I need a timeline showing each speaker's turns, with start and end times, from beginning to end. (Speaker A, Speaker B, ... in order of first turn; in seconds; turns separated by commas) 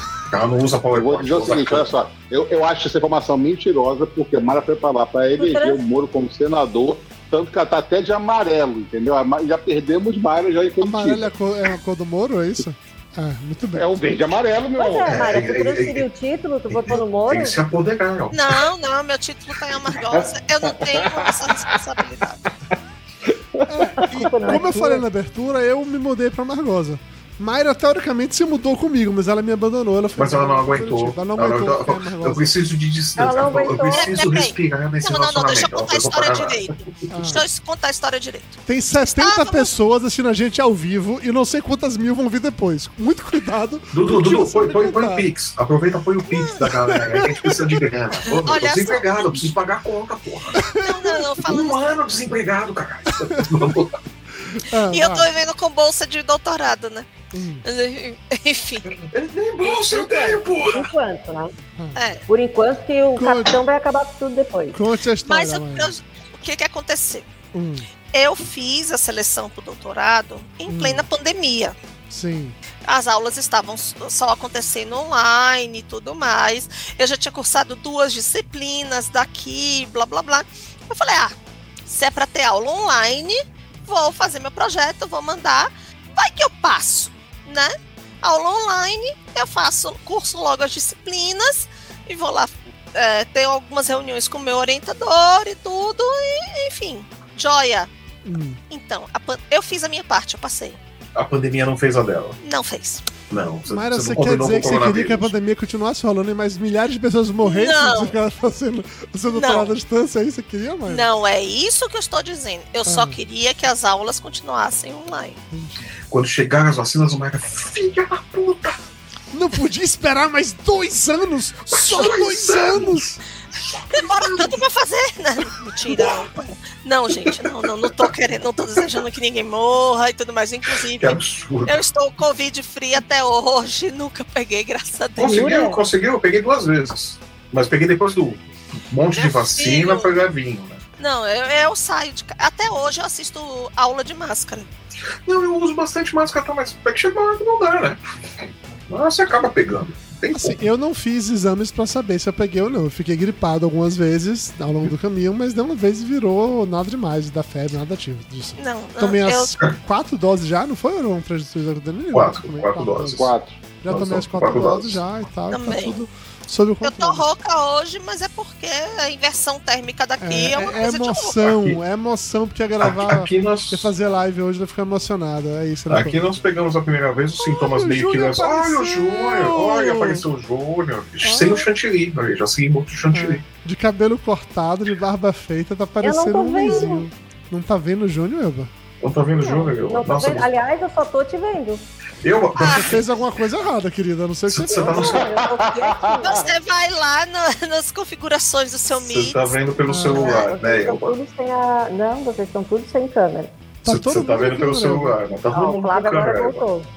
Speaker A: 0.3-1.9, Speaker B: 0.9-11.3, Speaker C: 5.4-5.8, Speaker D: 10.8-13.9, Speaker B: 13.8-15.2, Speaker C: 14.8-17.6, Speaker A: 15.1-16.1, Speaker A: 16.7-18.6, Speaker E: 18.3-22.4, Speaker B: 20.1-21.7, Speaker B: 23.6-24.2, Speaker D: 23.7-32.5, Speaker C: 24.1-25.0, Speaker A: 30.2-37.1, Speaker C: 33.2-34.3, Speaker E: 33.7-38.6, Speaker D: 37.1-37.5, Speaker D: 38.7-45.3, Speaker E: 39.1-39.7, Speaker A: 43.9-50.6, Speaker E: 46.3-46.7, Speaker D: 46.9-47.6, Speaker E: 48.3-49.5, Speaker D: 50.5-51.2, Speaker E: 50.7-51.9, Speaker A: 51.4-54.0, Speaker D: 53.2-53.5, Speaker D: 54.4-55.3, Speaker E: 54.9-57.1, Speaker D: 57.3-57.6, Speaker E: 57.6-58.9, Speaker A: 58.9-60.9, Speaker C: 59.7-61.5, Speaker E: 62.0-62.2, Speaker C: 62.3-64.8, Speaker D: 63.2-63.6, Speaker D: 64.7-65.9, Speaker E: 65.3-67.3, Speaker D: 67.5-67.9, Speaker E: 68.1-71.8, Speaker D: 70.7-71.1, Speaker D: 72.1-72.6, Speaker E: 72.9-81.3, Speaker E: 81.9-97.9, Speaker D: 98.2-98.6, Speaker E: 98.7-100.8, Speaker A: 101.2-102.4, Speaker E: 102.4-103.0, Speaker A: 103.3-105.3, Speaker D: 103.7-111.1, Speaker E: 107.4-108.2, Speaker E: 109.3-109.7, Speaker E: 110.9-115.4, Speaker D: 112.9-113.2, Speaker D: 115.5-115.8, Speaker A: 116.1-118.8, Speaker D: 119.3-123.1, Speaker A: 121.7-123.2, Speaker A: 123.8-124.6, Speaker E: 123.9-135.5, Speaker A: 125.9-126.3, Speaker A: 127.3-128.1, Speaker A: 130.9-131.8, Speaker A: 135.2-140.8, Speaker C: 135.2-135.8, Speaker E: 139.2-140.2, Speaker E: 141.0-144.7, Speaker A: 145.3-148.0, Speaker A: 148.9-150.6, Speaker D: 150.3-167.3, Speaker E: 158.6-159.6, Speaker A: 162.1-163.3, Speaker B: 163.2-163.6, Speaker A: 163.9-165.0, Speaker E: 165.5-166.0, Speaker E: 166.8-171.4, Speaker D: 170.2-176.4, Speaker A: 171.4-171.8, Speaker A: 172.8-173.9, Speaker A: 175.9-183.4, Speaker D: 177.4-180.2, Speaker D: 181.2-181.7, Speaker D: 183.1-188.7, Speaker C: 186.0-187.1, Speaker A: 189.0-190.5, Speaker C: 189.4-191.8, Speaker A: 192.2-193.0, Speaker E: 192.6-193.0, Speaker D: 192.6-195.2, Speaker A: 194.5-195.4, Speaker C: 194.7-196.5, Speaker B: 194.9-196.4, Speaker E: 196.2-199.6, Speaker A: 199.0-201.2, Speaker D: 199.9-200.4, Speaker C: 200.0-203.5, Speaker D: 203.8-205.2, Speaker A: 203.9-206.7, Speaker C: 205.5-206.9